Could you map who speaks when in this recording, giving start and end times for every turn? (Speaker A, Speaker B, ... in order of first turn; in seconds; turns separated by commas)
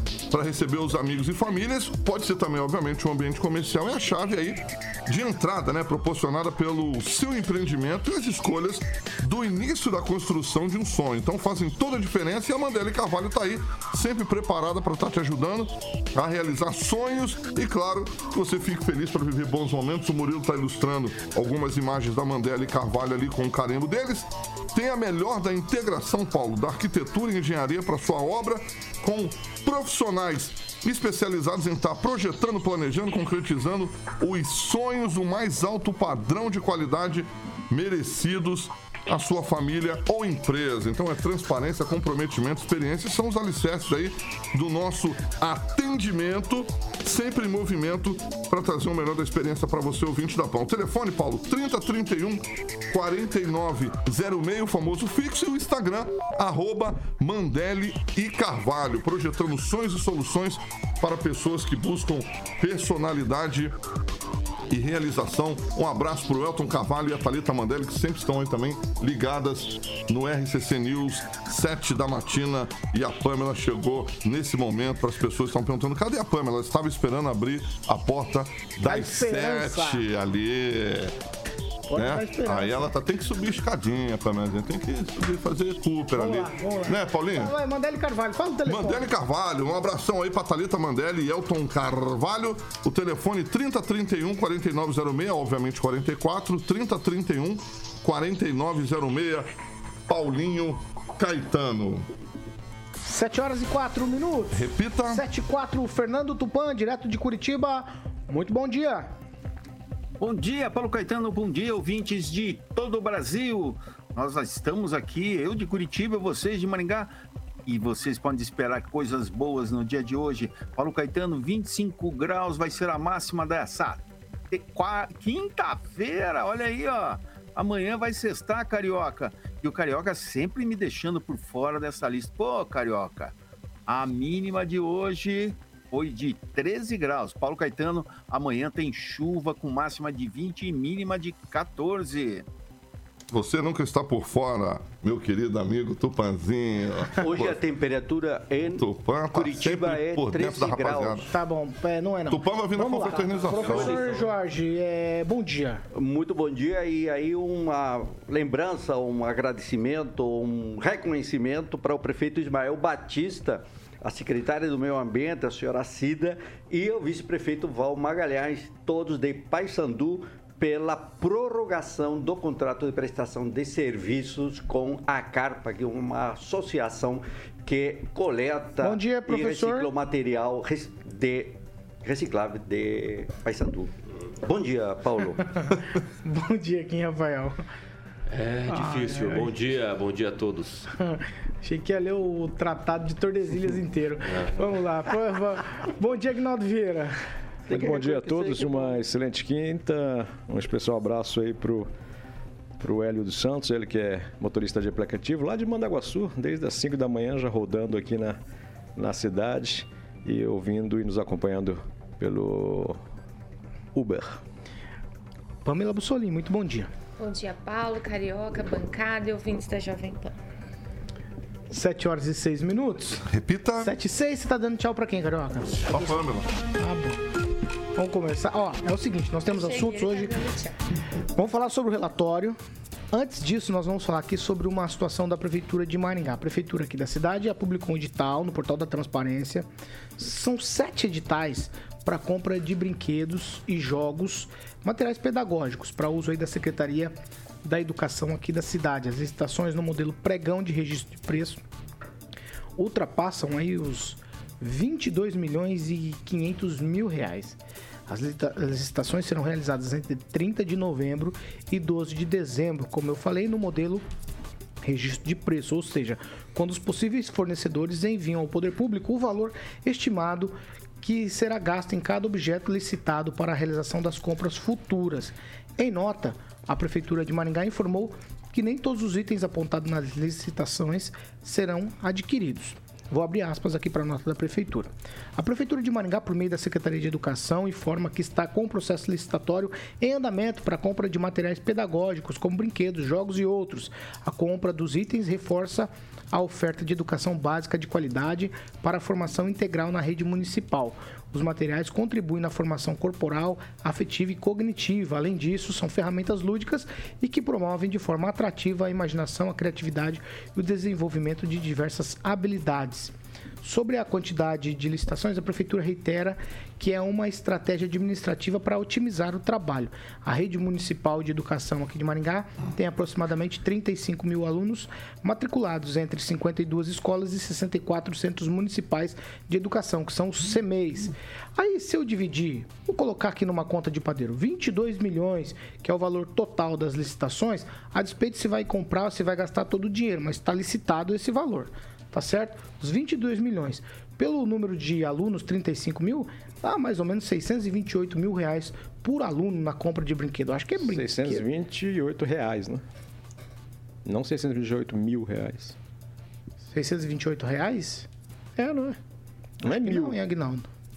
Speaker A: 0.3-63.7, Speaker A: 64.7-81.1, Speaker B: 78.8-80.0, Speaker B: 81.9-82.9, Speaker A: 81.9-87.5, Speaker B: 86.1-89.1, Speaker A: 88.7-99.5, Speaker A: 100.1-102.0, Speaker B: 103.0-109.1, Speaker A: 104.5-105.2, Speaker C: 110.2-117.1, Speaker C: 117.7-133.3, Speaker C: 133.9-142.4, Speaker A: 143.3-147.6, Speaker D: 147.2-151.3, Speaker A: 148.7-151.2, Speaker B: 151.3-155.8, Speaker A: 152.3-154.1, Speaker E: 153.4-154.3, Speaker D: 155.9-185.6, Speaker B: 178.8-179.9, Speaker B: 186.1-187.6, Speaker E: 188.3-190.9, Speaker B: 188.7-189.5, Speaker B: 191.0-197.2, Speaker E: 194.2-194.6, Speaker D: 197.7-199.1, Speaker F: 197.7-201.9, Speaker F: 202.8-208.4, Speaker F: 208.9-213.0, Speaker F: 213.9-214.4, Speaker B: 215.6-216.9, Speaker G: 217.2-220.3, Speaker B: 221.7-223.2, Speaker A: 223.3-223.9, Speaker B: 223.8-227.2, Speaker A: 225.9-226.5, Speaker B: 227.9-230.4, Speaker G: 229.5-230.8, Speaker B: 231.3-232.6, Speaker B: 233.1-251.6, Speaker B: 252.8-264.0, Speaker B: 264.8-351.4, Speaker F: 350.8-352.8, Speaker F: 354.0-355.8, Speaker B: 356.7-358.1, Speaker F: 358.6-359.0, Speaker B: 359.6-360.7, Speaker F: 359.6-360.2